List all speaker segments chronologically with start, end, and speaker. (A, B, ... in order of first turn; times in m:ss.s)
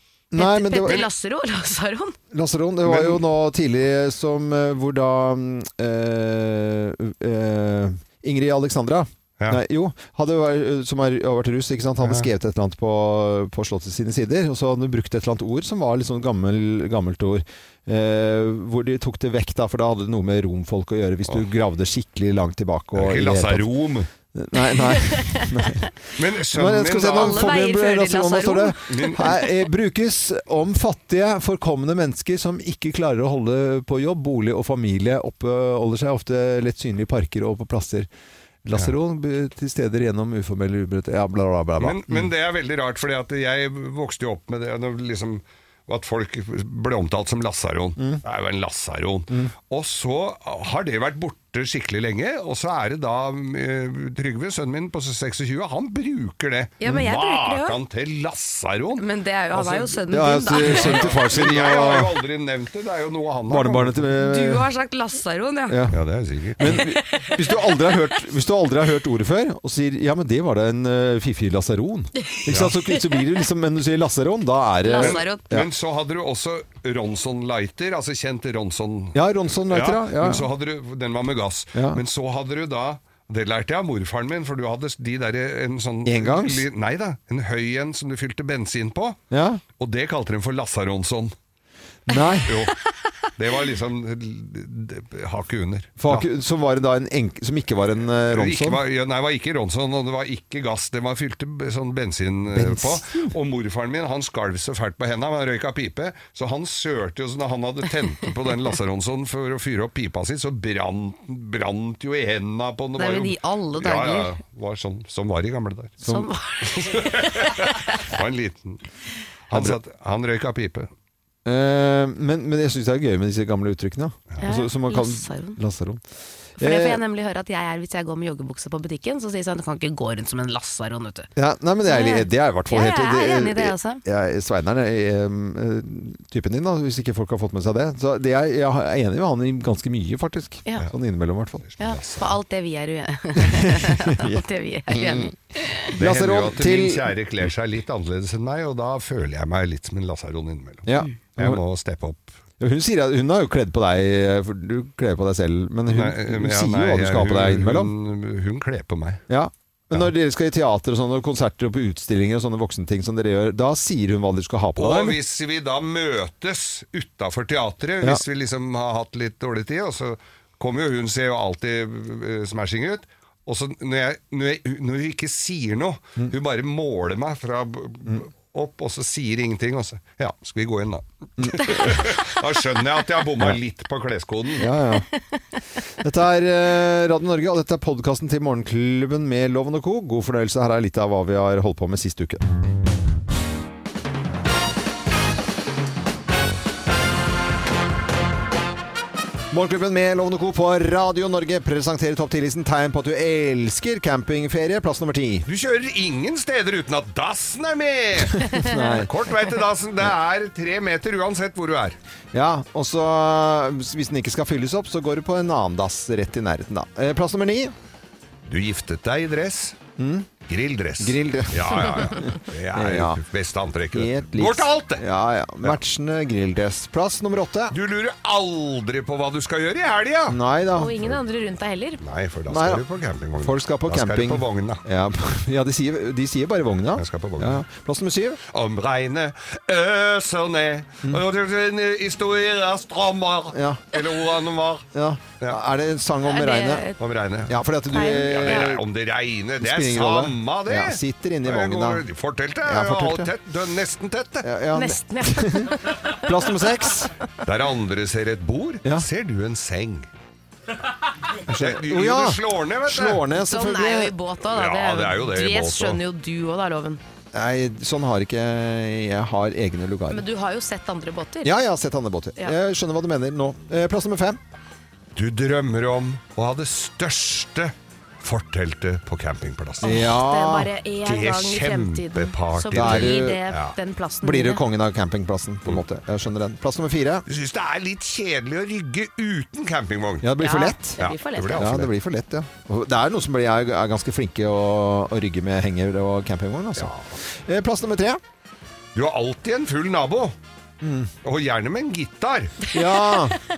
0:00.3-0:01.0 A
0:00.4-0:02.2 B
0:02.3-0:23.7 A
0:02.8-0:03.2 C
0:12.0-0:12.3 C
0:23.0-0:24.1 C
0:24.3-0:25.9 A
0:24.6-0:25.9 B
0:26.2-0:27.5 C
0:26.5-0:38.1 A
0:27.0-0:29.6 B
0:28.9-0:29.2 C
0:38.6-0:42.3 A
0:41.8-1:04.1 C
0:56.8-0:57.8 B
0:59.0-1:01.3 B
1:00.1-1:02.2 A
1:03.5-1:04.7 A
1:04.2-1:05.8 B
1:05.7-1:06.0 A
1:05.9-1:06.8 C
1:06.6-1:15.7 A
1:06.6-1:07.9 B
1:12.5-1:12.8 C
1:14.8-1:15.4 B
1:15.0-1:29.2 C
1:19.1-1:20.5 A
1:21.7-1:22.0 A
1:26.0-1:26.6 A
1:29.3-1:29.6 A
1:29.8-1:31.3 C
1:32.1-1:32.7 A
1:32.4-1:32.8 C
1:33.4-1:36.3 C
1:36.0-1:38.8 A
1:38.3-1:56.0 C
1:42.5-1:43.1 A
1:53.0-1:54.4 B
1:56.0-1:56.3 A
1:56.0-1:58.1 B
1:56.6-1:58.8 C
1:59.5-2:00.9 C
1:59.5-1:59.8 A
2:01.4-2:06.0 A
2:04.4-2:05.6 B
2:06.6-2:07.0 A
2:06.6-2:11.3 B
2:11.4-2:21.6 A
2:11.8-2:14.0 B
2:21.6-2:22.3 C
2:21.8-2:25.9 B
2:23.4-2:25.3 A
2:25.9-2:27.1 A
2:25.9-2:32.3 C
2:30.9-2:31.6 A
2:32.6-2:37.9 A
2:35.9-2:39.2 C
2:39.3-2:45.2 A
2:44.8-3:04.7 C
3:01.4-3:02.2 A
3:04.6-3:05.1 A
3:06.0-3:12.4 A
3:19.5-3:25.5 A
3:25.5-3:32.0 C
3:28.4-3:29.1 A
3:28.5-3:29.0 B
3:32.3-3:37.7 A
3:38.5-3:39.8 C
3:40.0-3:40.3 A
3:40.5-3:45.0 C
3:41.0-3:43.2 A
3:43.9-3:47.8 A
3:47.7-3:50.4 C
3:50.3-3:51.0 A
3:50.8-3:52.0 B
3:52.0-3:54.8 C
3:52.5-3:52.8 A
3:53.4-3:58.4 A
3:57.0-3:57.6 C
3:58.5-4:04.9 C
4:03.5-4:03.8 A
4:04.9-4:06.9 A
4:06.3-4:07.0 B
4:07.0-4:14.5 C
4:07.5-4:08.9 A
4:07.9-4:08.7 B
4:09.6-4:12.0 A
4:12.6-4:13.3 A
4:14.4-4:17.3 A
4:14.7-4:16.5 B
4:17.4-4:20.1 C
4:21.3-4:23.2 C
4:21.5-4:24.1 A
4:23.4-4:27.0 B
4:24.4-4:26.0 C
4:27.3-4:30.2 A
4:30.1-4:31.5 B
4:31.4-4:34.4 A
4:35.2-4:40.1 C
4:39.8-4:40.7 A
4:39.8-4:44.6 B
4:41.0-4:43.8 C
4:42.7-4:43.4 A
4:44.2-4:47.3 A
4:47.3-4:50.3 C
4:50.2-4:51.0 A
4:50.4-4:51.7 B
4:51.0-4:51.9 C
4:51.6-4:58.2 A
4:56.8-4:57.1 C
4:59.0-5:00.4 C
5:00.8-5:01.1 A
5:01.2-5:02.7 C
5:02.7-5:03.4 A